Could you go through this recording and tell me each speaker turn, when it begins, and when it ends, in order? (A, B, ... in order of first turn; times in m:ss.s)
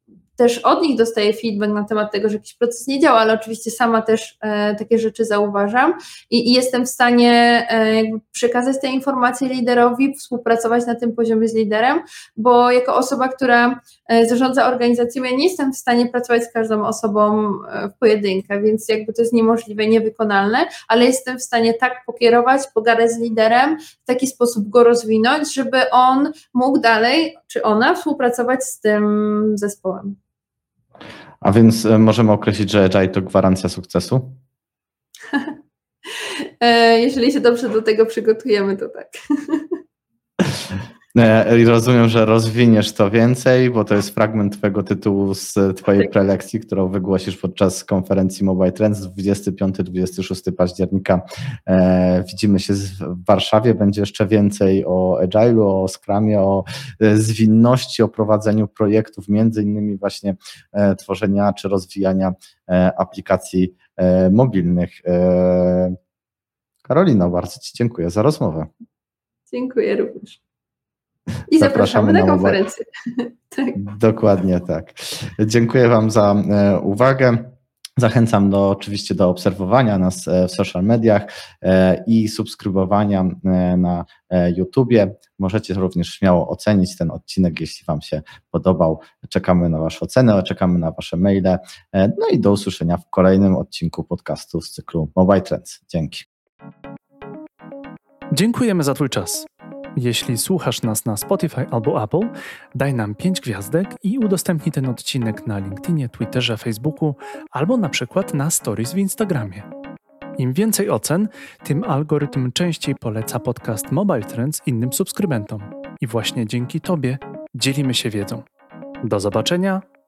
0:00.4-0:30.2 A
0:31.4-0:34.4 B
0:36.2-0:39.8 A
0:41.1-1:06.0 B
1:06.8-1:08.7 B
1:09.5-1:10.4 A
1:11.5-1:13.8 A
1:11.6-1:12.6 B
1:13.8-1:36.2 B
1:38.3-1:49.6 C
1:50.4-1:58.4 C
1:59.0-1:59.8 C